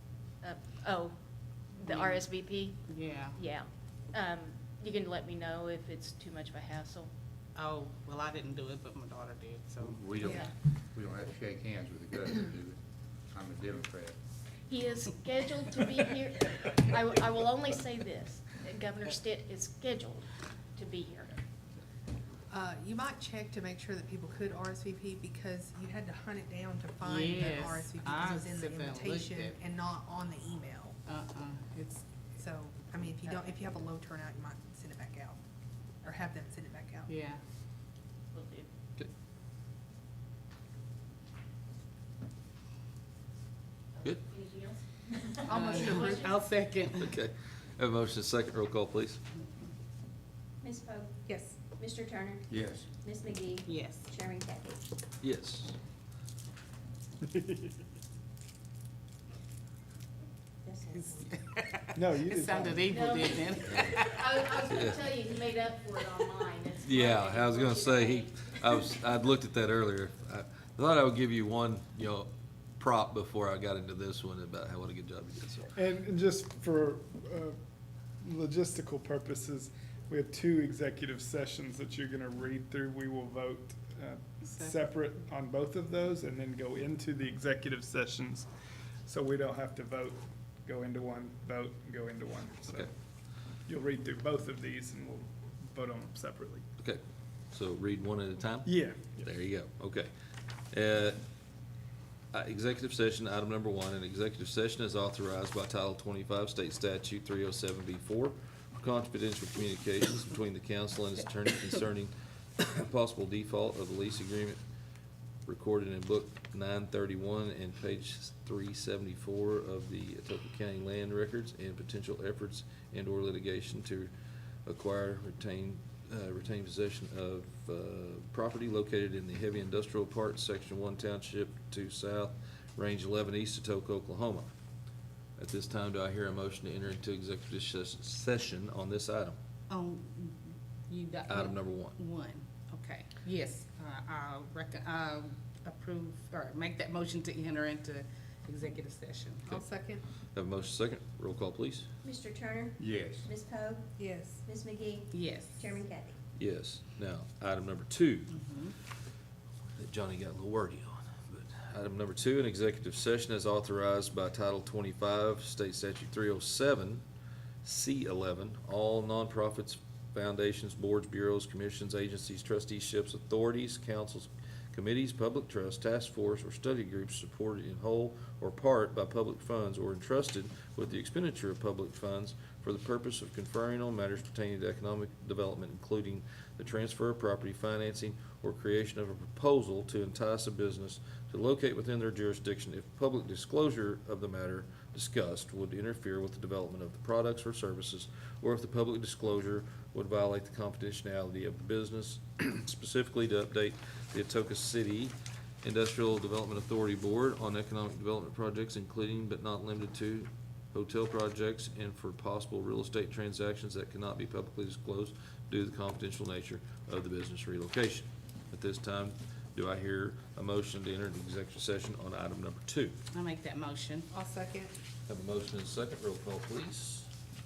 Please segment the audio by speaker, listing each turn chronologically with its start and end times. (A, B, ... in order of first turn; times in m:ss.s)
0:00.4-0:01.1 A
0:01.7-0:07.1 A
0:01.8-0:02.2 B
0:02.9-0:03.4 B
0:07.5-0:10.0 B
0:09.8-0:14.2 C
0:10.2-0:10.5 A
0:14.7-0:21.4 A
0:22.5-0:31.0 D
0:27.0-0:29.6 B
0:31.0-0:32.1 B
0:32.4-0:35.4 D
0:33.2-0:33.5 B
0:36.0-0:37.1 D
0:37.1-0:37.4 B
0:38.3-0:38.7 A
0:44.0-0:46.4 A
0:45.5-0:47.2 B
0:45.5-0:46.2 D
0:47.0-0:49.2 E
0:50.6-0:52.4 F
0:51.3-0:51.6 D
0:52.5-0:52.9 C
0:53.0-0:54.8 F
0:53.6-0:54.1 B
0:55.2-0:55.8 E
0:57.3-0:57.6 G
1:00.6-1:01.3 F
1:01.0-1:04.2 B
1:01.9-1:02.8 G
1:02.9-1:08.8 A
1:03.7-1:04.0 E
1:04.7-1:05.0 E
1:06.8-1:15.7 E
1:15.8-1:17.6 G
1:18.2-1:28.5 G
1:24.5-1:24.8 B
1:29.0-1:32.9 G
1:33.7-1:36.6 G
1:36.8-1:40.1 E
1:38.6-1:39.3 G
1:40.7-1:41.2 E
1:42.3-1:54.6 E
1:55.4-2:04.1 E
2:04.6-2:14.5 E
2:15.4-2:19.4 E
2:19.7-2:29.6 B
2:21.3-2:22.0 E
2:29.5-2:30.0 D
2:30.3-2:31.9 E
2:32.0-2:33.9 F
2:32.8-2:33.3 C
2:34.0-2:34.4 D
2:34.4-2:36.2 F
2:35.1-2:35.7 B
2:36.4-2:38.3 E
2:38.3-2:38.7 B
2:39.8-2:47.0 E
2:47.6-3:43.0 E
3:43.1-3:44.1 B
3:44.1-3:44.7 D
3:45.0-3:47.1 E